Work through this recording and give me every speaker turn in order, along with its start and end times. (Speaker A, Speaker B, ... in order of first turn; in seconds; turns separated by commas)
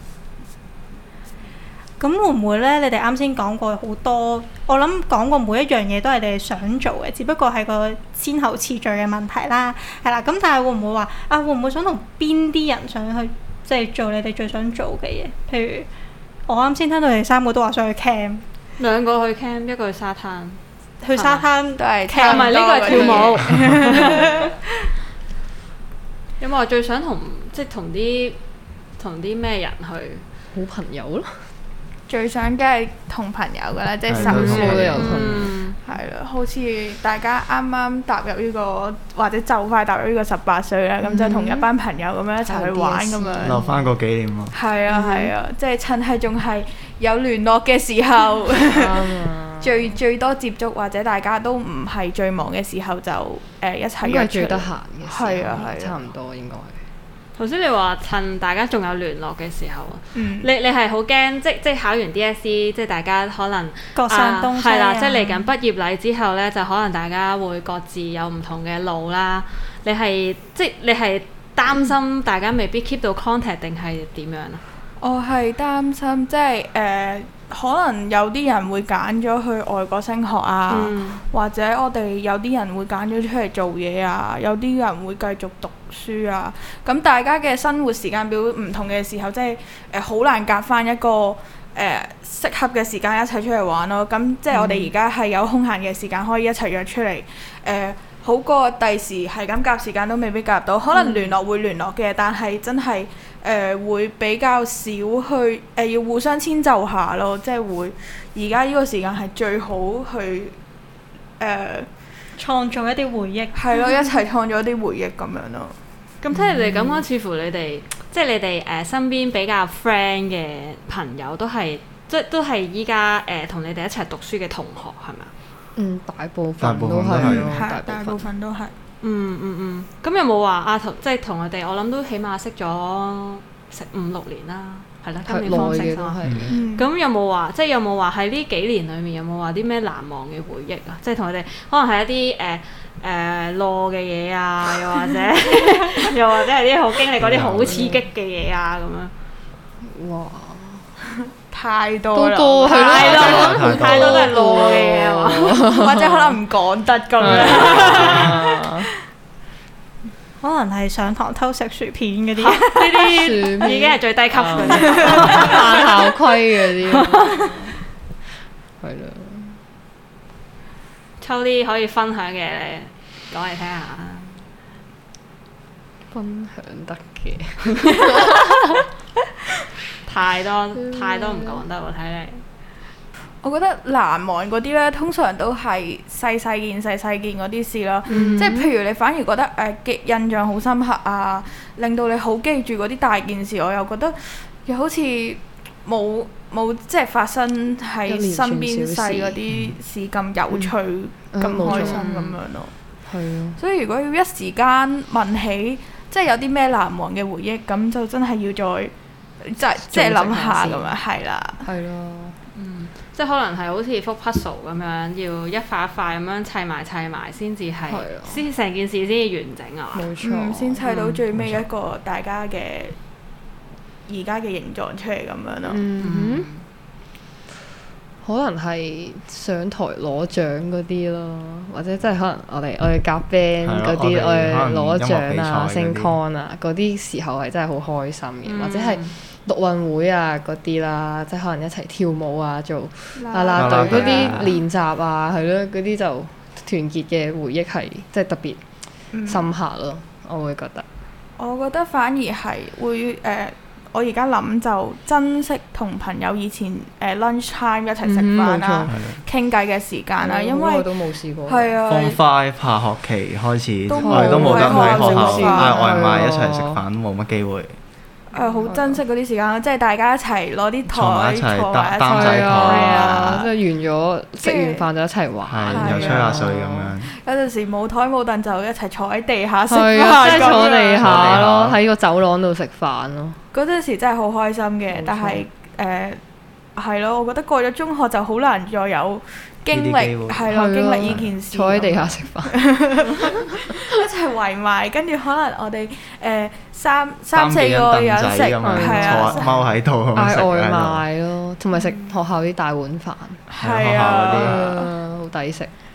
Speaker A: 2.0-15.9, Speaker A: 16.5-18.4, Speaker B: 18.8-20.6, Speaker A: 21.0-23.3, Speaker B: 21.1-21.5, Speaker C: 21.8-24.6, Speaker B: 22.2-24.4, Speaker B: 26.4-28.4, Speaker B: 29.0-30.2, Speaker D: 30.5-31.5, Speaker C: 32.1-43.6, Speaker E: 34.1-35.1, Speaker D: 34.2-35.6, Speaker B: 34.9-35.8, Speaker D: 41.0-41.7, Speaker D: 42.4-43.8, Speaker E: 43.4-44.5, Speaker C: 44.5-56.0, Speaker D: 44.9-45.3, Speaker D: 48.7-50.0, Speaker D: 54.0-56.8, Speaker B: 57.4-74.6, Speaker C: 60.1-60.5, Speaker A: 64.0-65.5, Speaker C: 75.0-110.5, Speaker B: 80.7-81.2, Speaker D: 94.5-94.9, Speaker C: 111.4-111.9, Speaker A: 112.4-114.0, Speaker C: 113.5-115.7, Speaker B: 116.2-125.3, Speaker D: 116.3-117.0, Speaker D: 125.8-128.2, Speaker E: 126.6-127.6, Speaker C: 127.2-128.7, Speaker B: 129.0-136.2, Speaker D: 135.3-136.7, Speaker E: 136.2-136.5, Speaker C: 136.5-136.9, Speaker B: 136.8-149.1, Speaker E: 147.2-147.8, Speaker D: 147.7-148.0, Speaker D: 149.8-150.9, Speaker C: 151.5-153.6, Speaker D: 152.1-156.4, Speaker B: 152.7-155.6, Speaker E: 153.0-154.3, Speaker C: 155.6-158.4, Speaker D: 157.2-158.9, Speaker B: 157.2-158.2, Speaker E: 157.5-158.3, Speaker A: 160.4-162.9, Speaker B: 162.4-165.9, Speaker D: 163.1-167.8, Speaker C: 164.8-165.6, Speaker B: 166.9-167.3, Speaker D: 168.8-169.6, Speaker B: 171.2-174.4, Speaker D: 176.1-178.7, Speaker B: 180.1-182.4, Speaker D: 180.8-181.6, Speaker C: 183.4-202.7, Speaker B: 188.1-188.6, Speaker D: 188.1-188.7, Speaker D: 198.1-199.4, Speaker D: 201.3-202.1, Speaker B: 201.6-202.4, Speaker D: 203.1-203.6, Speaker C: 203.6-211.7, Speaker D: 209.8-211.0, Speaker D: 211.6-212.4, Speaker B: 212.5-220.1, Speaker D: 217.9-218.4, Speaker D: 219.9-220.8, Speaker C: 220.2-223.0, Speaker B: 220.8-221.2, Speaker E: 221.3-221.6, Speaker C: 224.1-225.8, Speaker D: 225.7-226.5, Speaker B: 226.0-226.6, Speaker D: 228.2-248.6, Speaker E: 233.6-236.1, Speaker B: 238.4-239.2, Speaker C: 243.2-244.6, Speaker E: 243.5-244.6, Speaker C: 249.1-249.5, Speaker D: 249.2-250.9, Speaker C: 251.4-260.9, Speaker D: 258.0-258.9, Speaker E: 258.9-259.2, Speaker D: 260.2-261.8, Speaker C: 261.5-262.2, Speaker E: 261.9-267.8, Speaker C: 263.9-266.2, Speaker D: 264.0-266.8, Speaker C: 268.3-273.4, Speaker D: 268.6-269.0, Speaker E: 270.9-273.4, Speaker D: 272.1-276.9, Speaker C: 274.4-274.9, Speaker E: 275.5-277.1, Speaker C: 275.7-276.5, Speaker C: 277.1-281.4, Speaker D: 279.7-283.4, Speaker E: 281.0-281.8, Speaker C: 283.5-286.2, Speaker D: 284.9-285.4, Speaker C: 286.8-299.6, Speaker E: 289.7-290.5, Speaker D: 290.5-292.6, Speaker E: 297.3-301.0, Speaker D: 298.6-299.6, Speaker D: 300.1-303.4, Speaker C: 303.5-304.9, Speaker E: 303.6-304.7, Speaker D: 304.3-305.7